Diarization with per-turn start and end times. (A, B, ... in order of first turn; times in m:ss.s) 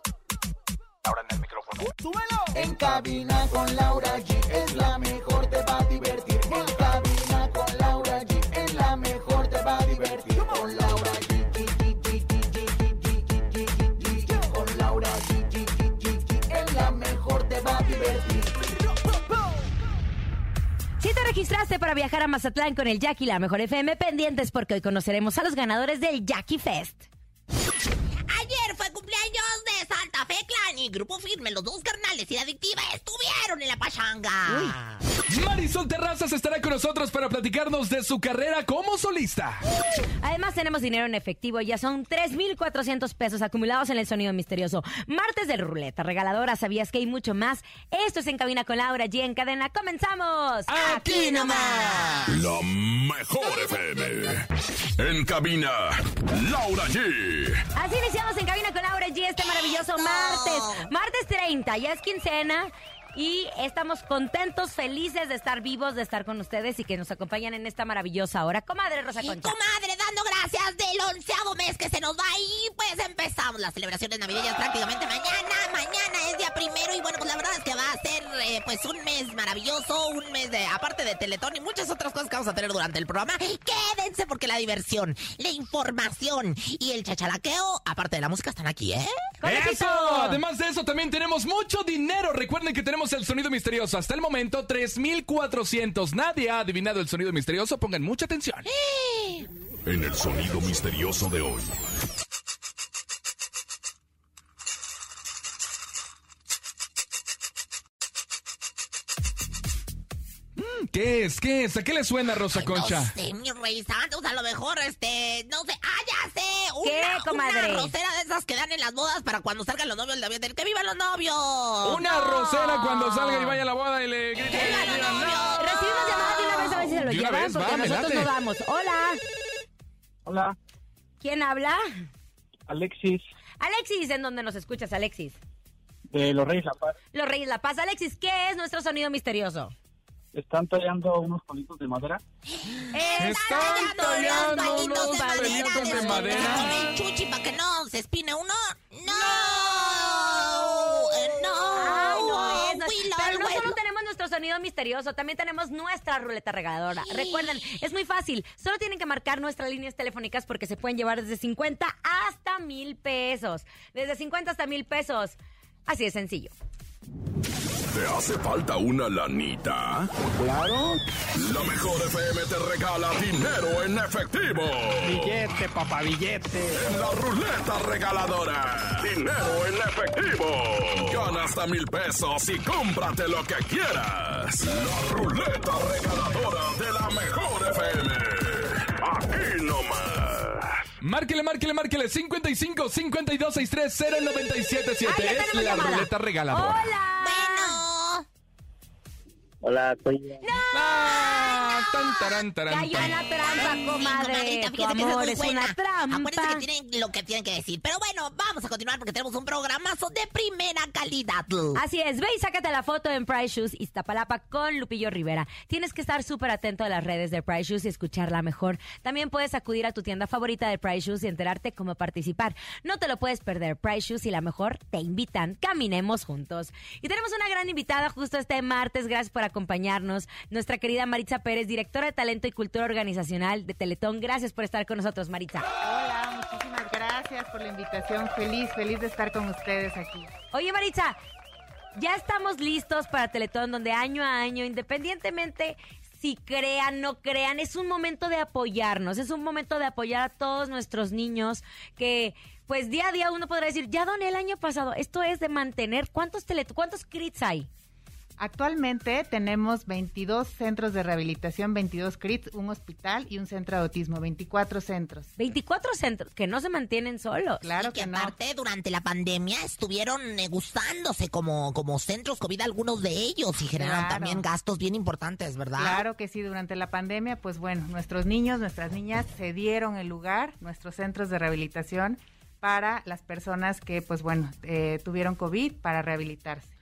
0:01.0-0:02.0 A
0:02.0-0:18.5 B
0:02.5-0:03.3 A
0:04.5-0:06.8 A
0:09.9-0:10.8 A
0:21.0-0:27.1 C
0:28.3-0:35.0 D
0:35.3-0:39.6 E
0:40.2-0:52.2 C
0:50.7-0:52.4 E
0:52.3-0:54.5 F
0:55.0-0:57.6 F
0:57.7-1:09.6 C
0:59.4-1:00.9 D
1:09.2-1:29.2 D
1:29.4-1:30.4 C
1:29.4-1:38.7 E
1:38.6-1:39.5 D
1:39.8-1:41.7 F
1:50.6-1:53.1 E
1:52.5-2:02.1 D
1:56.8-1:57.9 C
2:01.8-2:08.3 E
2:02.0-2:03.6 C
2:04.4-2:06.3 D
2:05.6-2:09.2 C
2:10.2-2:10.6 G
2:11.2-2:11.8 C
2:12.7-2:13.2 G
2:13.6-2:15.4 C
2:16.1-2:17.0 G
2:17.1-2:19.7 C
2:20.3-2:22.2 G
2:22.5-2:33.8 D
2:22.9-2:26.9 C
2:23.2-2:26.7 E
2:31.7-2:45.4 C
2:37.0-2:37.6 D
2:45.9-2:46.5 C
2:47.9-2:50.1 F
2:50.4-2:51.0 H
2:51.4-2:55.5 F
2:55.0-2:56.8 H
2:56.8-3:10.8 F
3:11.0-3:16.9 E
3:15.0-3:17.8 C
3:17.2-3:18.2 D
3:20.4-3:26.6 C
3:20.7-3:23.2 E
3:23.0-3:31.8 D
3:31.7-3:55.6 C
3:55.8-4:00.3 I
4:00.5-4:01.2 C
4:01.9-4:17.7 C
4:18.4-4:25.3 I
4:25.4-4:27.6 C
4:27.6-4:28.3 I
4:27.8-4:36.0 D
4:33.7-4:34.4 I
4:35.8-4:46.7 I